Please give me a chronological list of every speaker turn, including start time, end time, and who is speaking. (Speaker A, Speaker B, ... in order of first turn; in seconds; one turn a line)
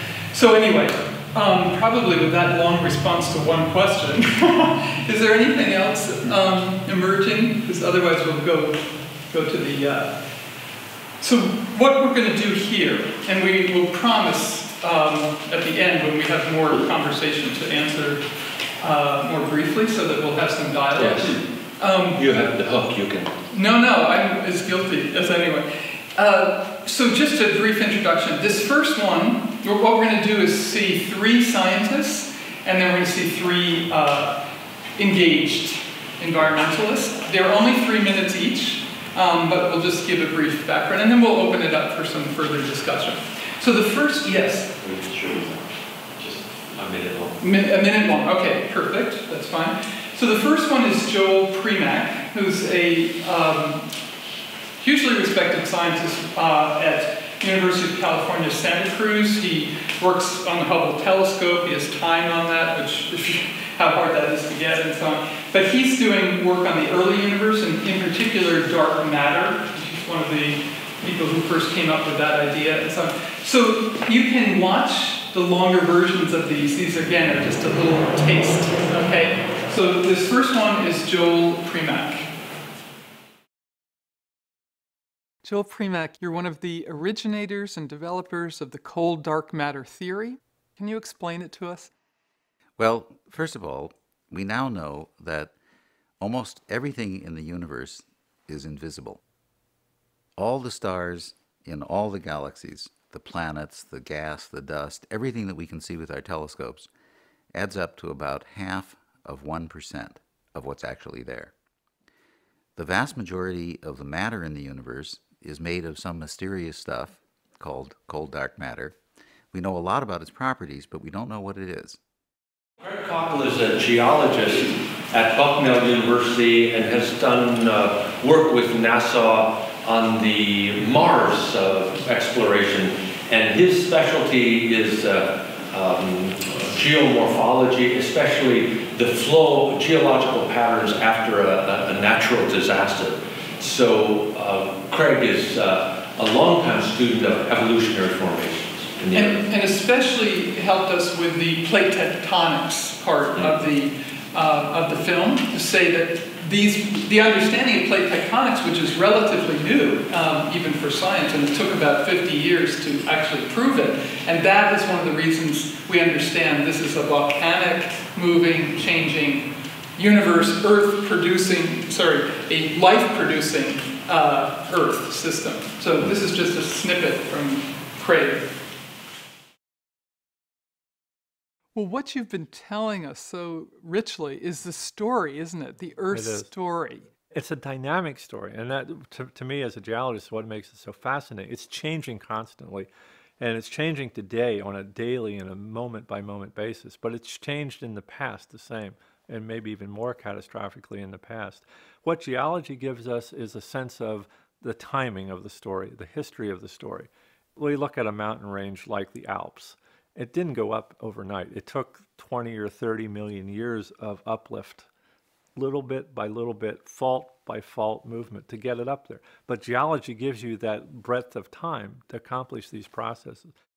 Speaker A: 0.3-8.8
Speaker A: 9.3-10.1
Speaker A: 11.2-18.2
Speaker A: 18.8-22.2
Speaker B: 20.9-21.4
Speaker B: 22.1-23.3
Speaker A: 23.5-34.4
Speaker A: 35.0-44.7
Speaker B: 44.8-45.6
Speaker B: 46.2-47.4
Speaker A: 47.4-53.8
Speaker A: 54.8-82.3
Speaker A: 85.4-91.9
Speaker C: 92.8-95.5
Speaker C: 96.2-99.2
Speaker C: 100.4-106.9
Speaker C: 107.5-111.5
Speaker C: 112.8-119.0
Speaker C: 119.5-122.0
Speaker B: 122.8-149.4
Speaker A: 149.1-169.4
Speaker A: 170.0-178.4
Speaker A: 181.7-187.1
Speaker D: 186.1-186.5
Speaker D: 187.3-214.9
Speaker D: 215.6-223.5